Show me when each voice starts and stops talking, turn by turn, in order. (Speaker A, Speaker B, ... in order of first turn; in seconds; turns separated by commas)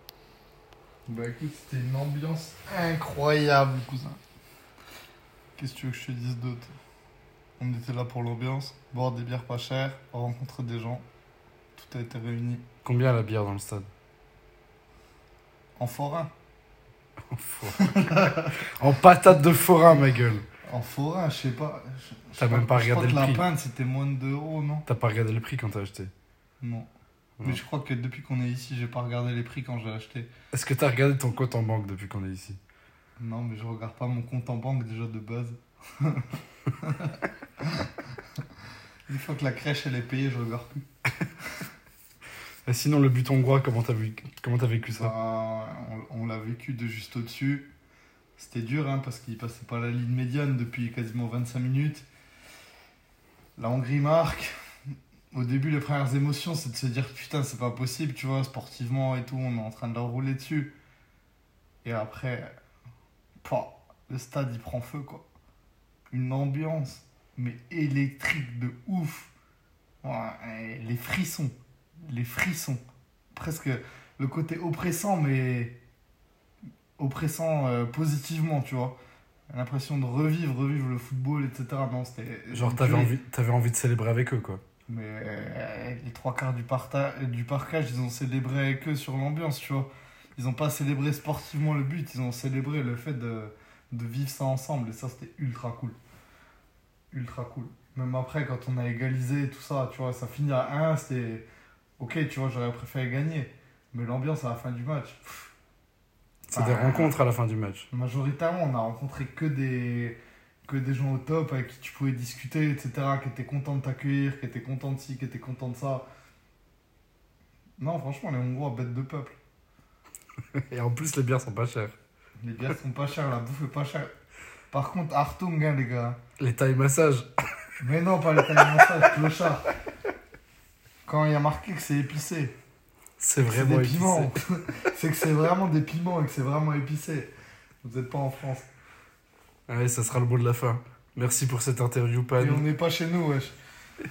Speaker A: 1.1-4.2, Speaker A: 5.6-6.7, Speaker A: 7.6-11.0, Speaker A: 11.8-12.6, Speaker B: 12.8-13.9, Speaker A: 15.8-16.3, Speaker B: 17.3-20.4, Speaker A: 17.8-18.5, Speaker A: 20.6-24.9, Speaker B: 22.4-23.4, Speaker B: 24.9-26.1, Speaker A: 26.6-26.9, Speaker A: 27.4-30.3, Speaker B: 30.5-32.6, Speaker A: 33.2-37.9, Speaker A: 39.1-40.7, Speaker B: 42.6-45.1, Speaker A: 44.9-47.7, Speaker A: 48.4-52.0, Speaker A: 53.5-54.5, Speaker A: 55.3-60.7, Speaker A: 61.8-62.5, Speaker A: 63.4-65.2, Speaker A: 66.1-69.3, Speaker A: 70.0-72.8, Speaker A: 73.3-75.8, Speaker A: 77.0-79.0, Speaker A: 79.5-83.1, Speaker B: 82.5-84.6, Speaker A: 84.9-96.0, Speaker A: 97.1-101.5, Speaker A: 102.0-105.5, Speaker B: 106.5-107.9, Speaker A: 106.5-107.2, Speaker A: 107.9-116.0, Speaker A: 117.8-119.3, Speaker B: 120.7-122.0, Speaker A: 122.4-124.1, Speaker A: 124.7-126.2, Speaker B: 126.4-127.3, Speaker A: 127.8-129.7, Speaker A: 131.0-132.5, Speaker B: 133.2-134.3, Speaker A: 133.4-137.3, Speaker A: 137.8-138.7, Speaker B: 139.7-142.6, Speaker A: 142.4-143.5